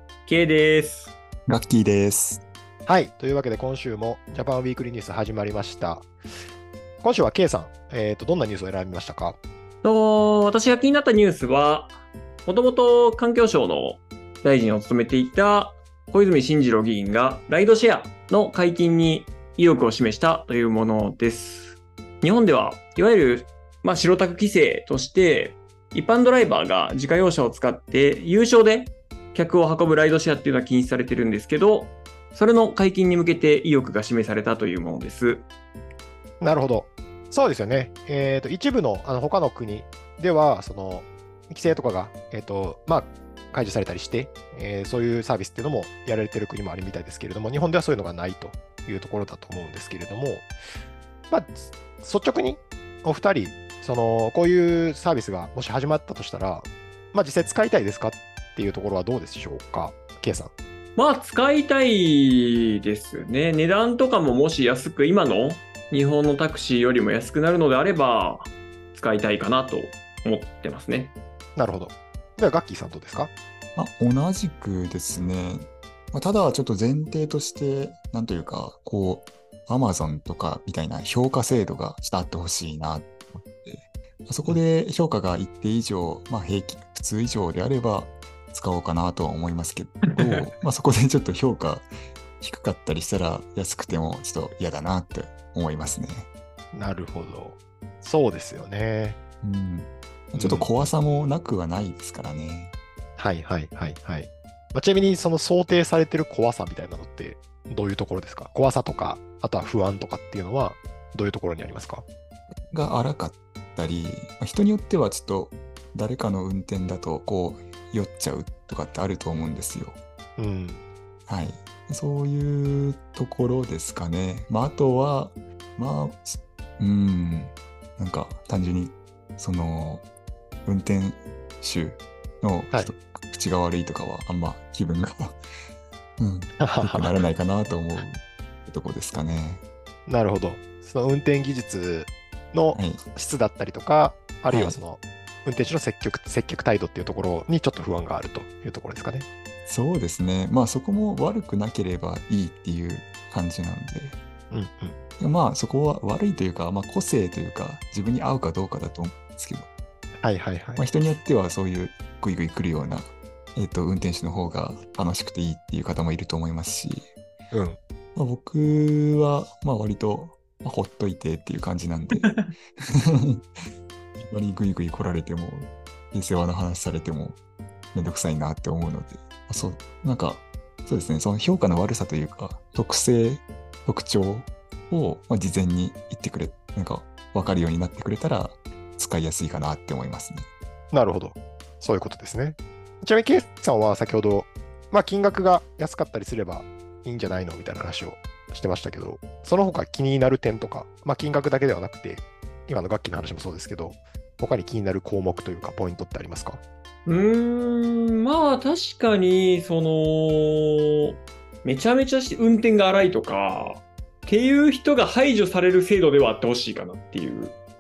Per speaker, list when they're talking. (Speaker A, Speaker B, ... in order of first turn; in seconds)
Speaker A: 0.3-1.1, 9.8-11.9, 12.4-35.5, 61.0-71.1, 90.1-90.4, 172.2-172.5, 207.1-211.1, 211.6-217.5
Speaker B: 1.5-2.4, 73.8-91.9, 92.4-96.3, 99.4-102.7, 112.5-120.0, 121.3-130.0, 130.7-135.4, 136.2-139.6, 142.7-143.0, 144.5-144.8, 149.7-154.2, 155.2-159.7, 160.8-167.1, 168.1-173.5, 174.2-177.4, 177.9-190.5
Speaker C: 2.9-6.1, 7.0-9.4, 36.4-50.5, 51.3-60.5, 71.5-73.3, 96.7-99.2, 100.3-100.9, 103.2-112.0, 120.4-120.8, 136.6-137.1, 140.1-149.3, 154.5-154.9, 160.2-160.8, 167.5-167.8, 190.9-206.6